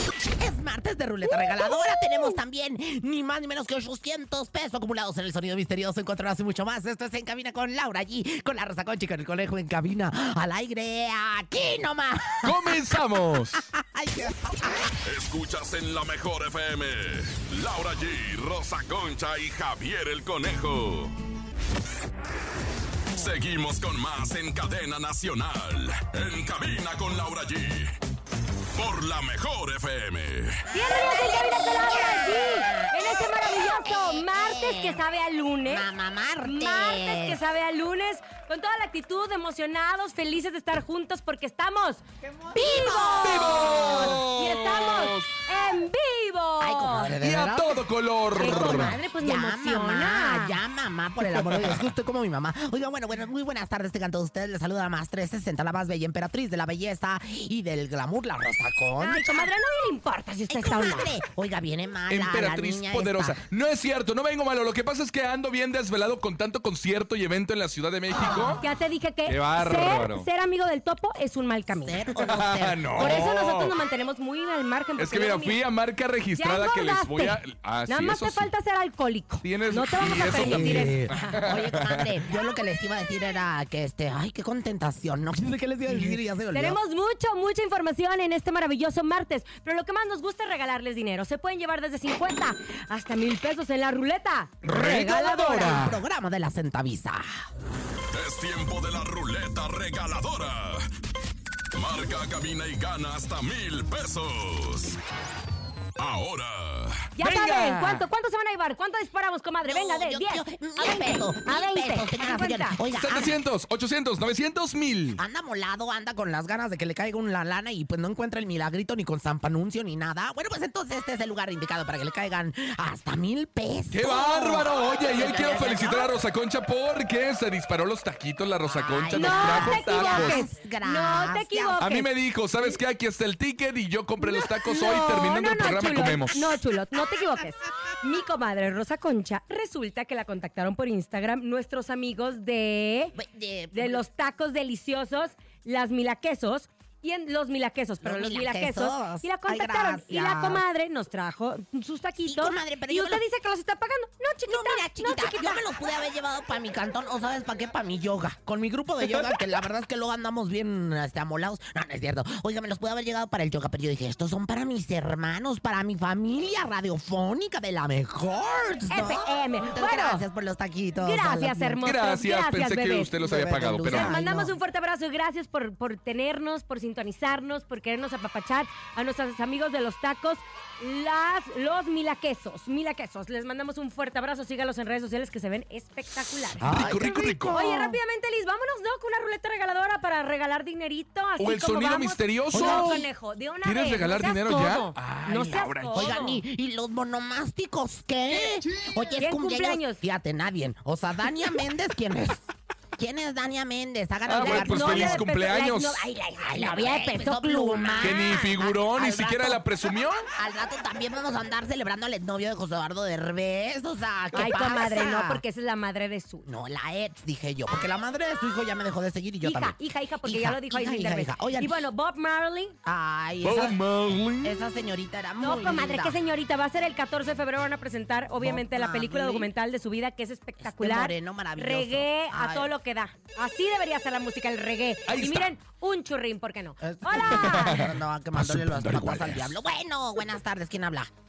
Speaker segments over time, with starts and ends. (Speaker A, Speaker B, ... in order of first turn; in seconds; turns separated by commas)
Speaker A: 0.4-12.8, Speaker B: 12.4-13.7, Speaker A: 13.7-14.9, Speaker C: 15.0-21.1, Speaker C: 23.1-27.9, Speaker C: 28.8-30.6, Speaker A: 30.7-35.0, Speaker D: 30.7-35.9, Speaker A: 35.6-37.4, Speaker D: 36.4-42.0, Speaker A: 42.5-44.2, Speaker D: 42.5-47.2, Speaker B: 43.2-45.3, Speaker A: 46.6-59.5, Speaker B: 47.2-49.0, Speaker D: 48.4-50.6, Speaker B: 51.3-51.8, Speaker D: 59.0-61.2, Speaker A: 60.5-63.4, Speaker B: 62.1-68.6, Speaker A: 68.2-68.6, Speaker D: 68.6-72.1, Speaker B: 69.3-70.3, Speaker A: 71.8-73.2, Speaker B: 72.2-73.7, Speaker D: 73.0-75.6, Speaker B: 75.0-78.5, Speaker D: 76.4-81.5, Speaker B: 79.4-82.2, Speaker A: 80.2-86.8, Speaker D: 86.5-95.8, Speaker B: 94.6-96.0, Speaker A: 94.8-97.5, Speaker C: 98.1-100.9, Speaker C: 101.8-105.0, Speaker C: 106.0-107.0, Speaker D: 107.2-112.8, Speaker B: 107.2-108.0, Speaker A: 109.6-113.4, Speaker B: 113.0-115.2, Speaker A: 115.2-126.1, Speaker B: 123.9-130.4, Speaker A: 128.6-131.9, Speaker D: 129.1-132.1, Speaker B: 131.8-136.6, Speaker D: 134.2-143.2, Speaker A: 143.1-144.0, Speaker D: 143.7-155.6, Speaker A: 148.0-150.6, Speaker A: 152.2-153.2, Speaker A: 154.5-171.8, Speaker D: 168.9-170.2, Speaker D: 171.0-173.1, Speaker B: 171.8-174.1, Speaker A: 173.2-174.5, Speaker D: 173.9-196.4, Speaker A: 186.6-188.0, Speaker B: 186.7-187.6, Speaker B: 191.4-193.1, Speaker A: 192.5-193.0, Speaker B: 193.6-196.2, Speaker A: 195.9-202.4, Speaker D: 199.2-200.0, Speaker A: 203.0-205.2, Speaker B: 204.3-206.1, Speaker D: 204.3-208.5, Speaker A: 206.4-215.4, Speaker B: 208.0-210.3, Speaker D: 214.3-216.5, Speaker A: 216.4-221.8, Speaker D: 219.4-222.8, Speaker A: 222.8-223.8, Speaker B: 223.4-224.6, Speaker A: 224.4-226.2, Speaker D: 225.4-237.8, Speaker A: 228.4-229.5, Speaker A: 230.6-232.7, Speaker B: 235.1-235.5, Speaker A: 236.8-241.1, Speaker B: 237.3-239.5